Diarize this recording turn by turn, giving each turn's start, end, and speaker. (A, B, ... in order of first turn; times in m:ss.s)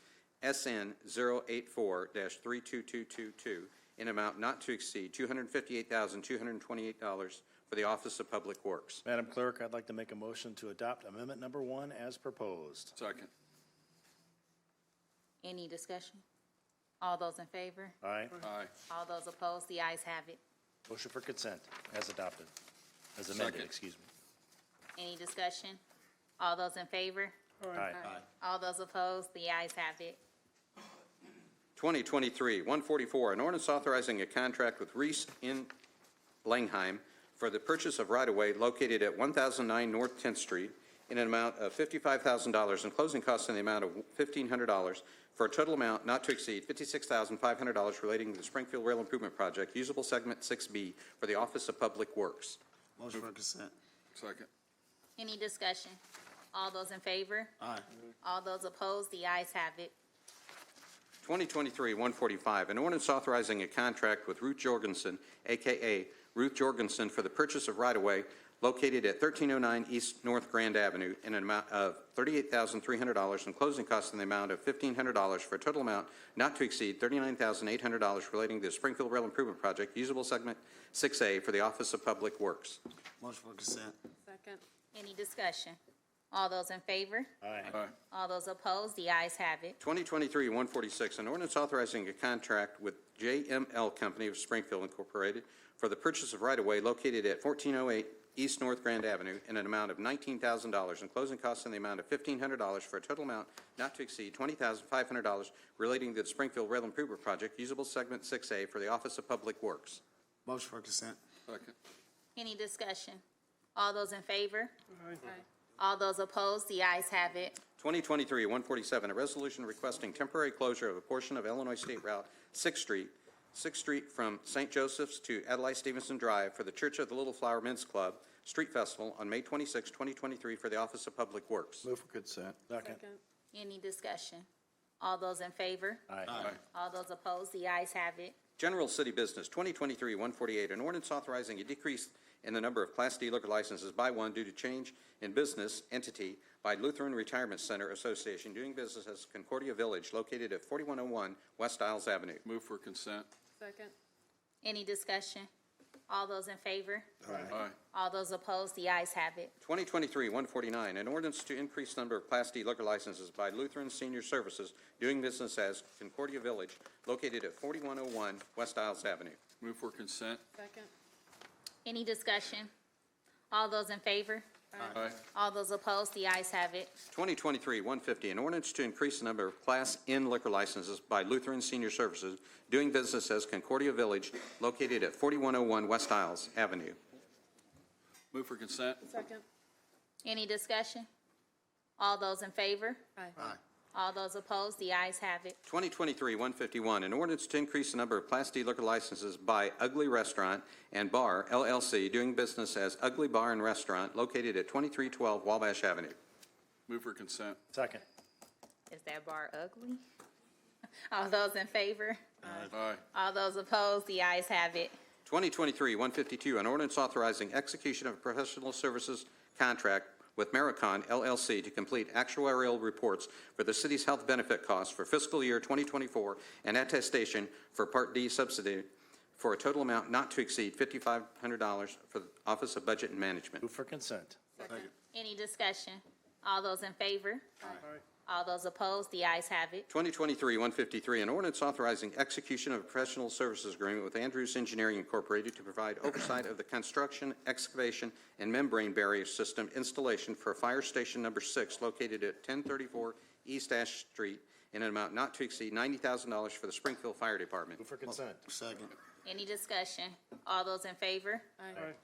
0:00.4-0:09.0 A
0:09.0-0:12.9 B
0:13.0-0:13.3 C
0:15.4-0:16.2 D
0:17.0-0:18.0 D
0:18.0-0:18.4 B
0:18.4-0:18.7 C
0:18.9-0:20.4 D
0:20.9-0:22.5 B
0:23.2-0:24.1 B
0:23.3-0:23.7 C
0:25.0-0:25.8 D
0:26.4-0:27.4 D
0:27.7-0:28.1 B
0:28.4-0:30.2 D
0:31.8-0:35.7 A
0:36.4-0:52.6 A
0:53.0-0:53.7 E
0:54.1-0:54.5 C
0:55.2-0:56.0 D
0:56.5-0:57.5 D
0:58.2-0:59.9 D
1:01.2-1:22.8 A
1:23.2-1:24.0 E
1:24.3-1:24.6 F
1:24.9-1:25.8 D
1:26.3-1:27.3 D
1:27.4-1:27.7 B
1:27.7-1:27.9 C
1:28.1-1:29.8 D
1:29.8-1:50.0 A
1:50.4-1:51.2 E
1:51.5-1:51.7 C
1:52.4-1:53.2 D
1:53.8-1:54.7 D
1:55.8-1:57.6 D
1:57.8-2:11.9 A
2:11.9-2:12.6 C
2:12.6-2:13.0 B
2:12.8-2:13.2 F
2:13.5-2:14.5 D
2:15.0-2:18.4 D
2:16.1-2:16.4 B
2:16.3-2:16.6 E
2:18.6-2:32.4 A
2:32.5-2:33.3 C
2:33.6-2:33.9 F
2:34.6-2:35.5 D
2:36.1-2:37.4 D
2:37.5-2:37.8 C
2:37.9-2:39.5 D
2:39.6-2:49.4 A
2:49.6-2:50.4 C
2:50.6-2:50.9 F
2:51.8-2:52.7 D
2:53.5-2:54.5 D
2:54.9-2:55.2 C
2:55.3-2:56.9 D
2:57.1-3:07.0 A
3:08.3-3:09.0 C
3:09.0-3:09.4 F
3:10.2-3:11.1 D
3:12.0-3:13.0 D
3:13.9-3:15.6 D
3:15.7-3:26.2 A
3:26.9-3:27.6 C
3:27.7-3:28.0 B
3:28.9-3:30.0 D
3:31.1-3:34.9 D
3:32.4-3:32.7 E
3:32.7-3:33.0 C
3:35.3-3:53.6 A
3:53.6-3:54.4 B
3:54.6-3:54.9 F
3:55.1-3:57.6 D
3:58.3-3:59.9 D
3:59.9-4:17.8 A
4:17.8-4:18.4 B
4:18.1-4:19.0 E
4:19.2-4:21.5 D
4:21.6-4:21.9 F